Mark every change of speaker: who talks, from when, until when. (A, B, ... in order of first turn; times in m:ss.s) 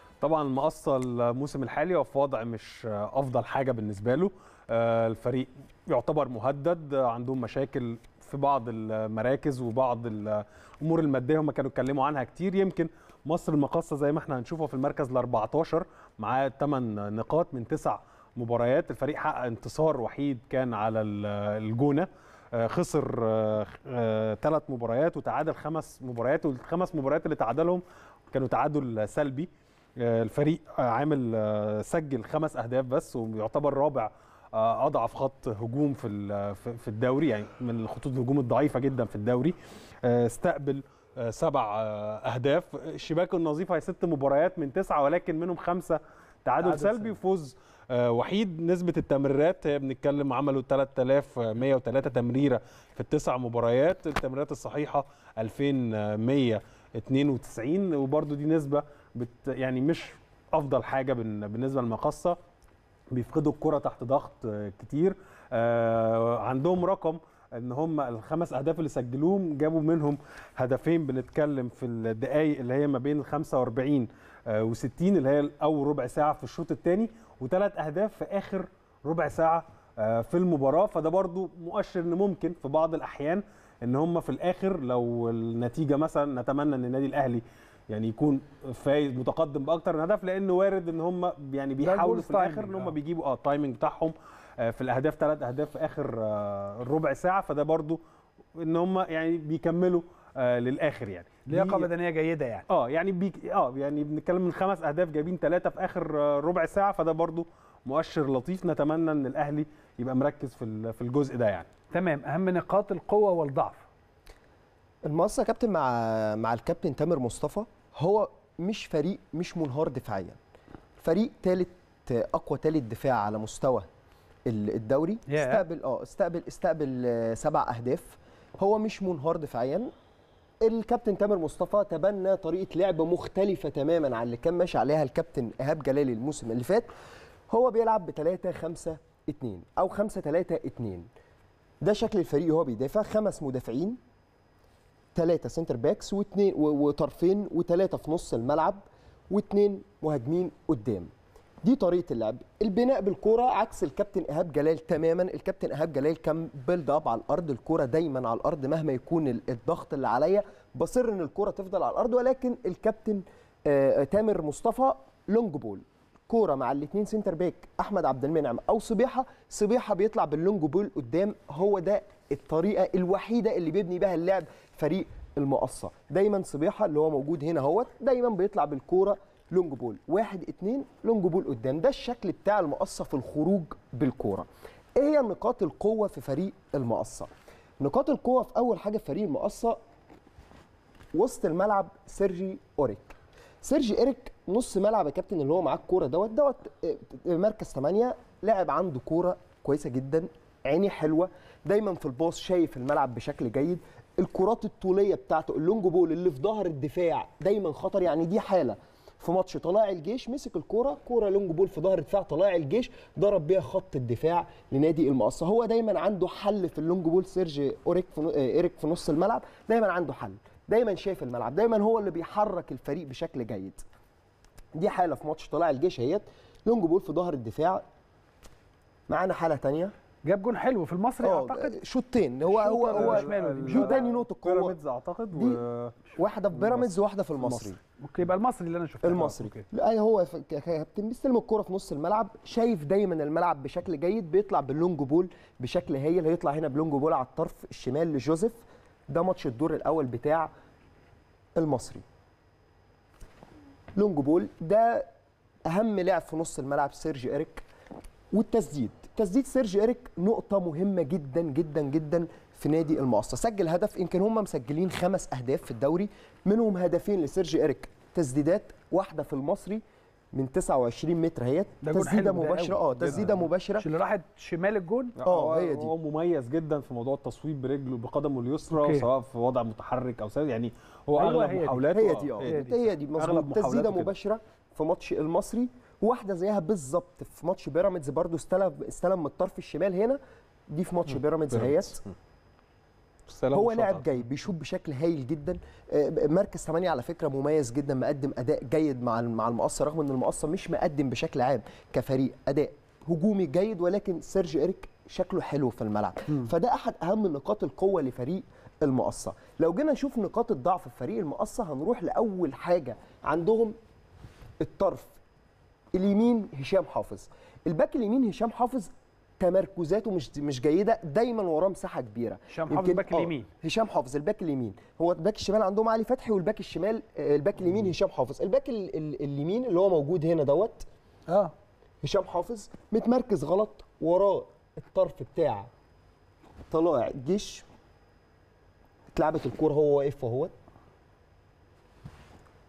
0:00.2-1:02.4 A
0:46.6-0:47.2 B
1:03.1-1:38.0 A
1:31.8-1:32.9 B
1:38.6-1:41.9 A
1:41.5-1:42.6 B
1:42.7-1:51.7 A
1:51.9-1:53.8 B
1:55.0-2:00.4 C
2:01.0-2:03.8 C
2:04.4-2:09.9 C
2:05.3-2:05.6 B
2:10.6-2:16.9 C
2:17.5-2:21.1 C
2:21.8-2:24.0 C
2:25.1-2:31.1 C
2:31.6-3:09.8 C
3:11.1-3:43.8 C
3:44.8-3:47.8 C
3:49.1-3:49.9 C
3:50.2-3:51.7 B
3:51.2-3:54.8 C
3:52.5-3:54.0 B
3:52.9-3:57.7 A
3:55.3-3:55.6 C
3:56.1-3:57.8 C
3:58.0-3:59.6 B
3:59.0-4:10.5 C
4:11.6-4:12.0 C
4:14.0-4:15.0 C
4:15.7-4:17.6 C
4:18.3-4:29.8 C
4:30.3-4:33.8 C
4:31.8-4:33.2 B
4:33.0-4:33.4 A
4:33.8-4:35.1 B
4:35.2-4:42.6 A
4:35.2-4:35.9 C
4:38.7-4:39.0 B
4:41.1-4:42.8 B
4:41.9-4:50.2 C
4:43.1-4:44.1 A
4:50.7-4:52.0 C
4:51.1-4:52.1 A
4:53.3-4:54.1 A
4:53.5-5:13.7 C
5:14.6-5:15.2 C
5:15.9-5:30.8 C
5:22.5-5:23.5 B
5:31.3-5:31.5 B
5:32.0-5:35.7 C
5:36.7-5:37.6 C
5:39.1-5:40.5 C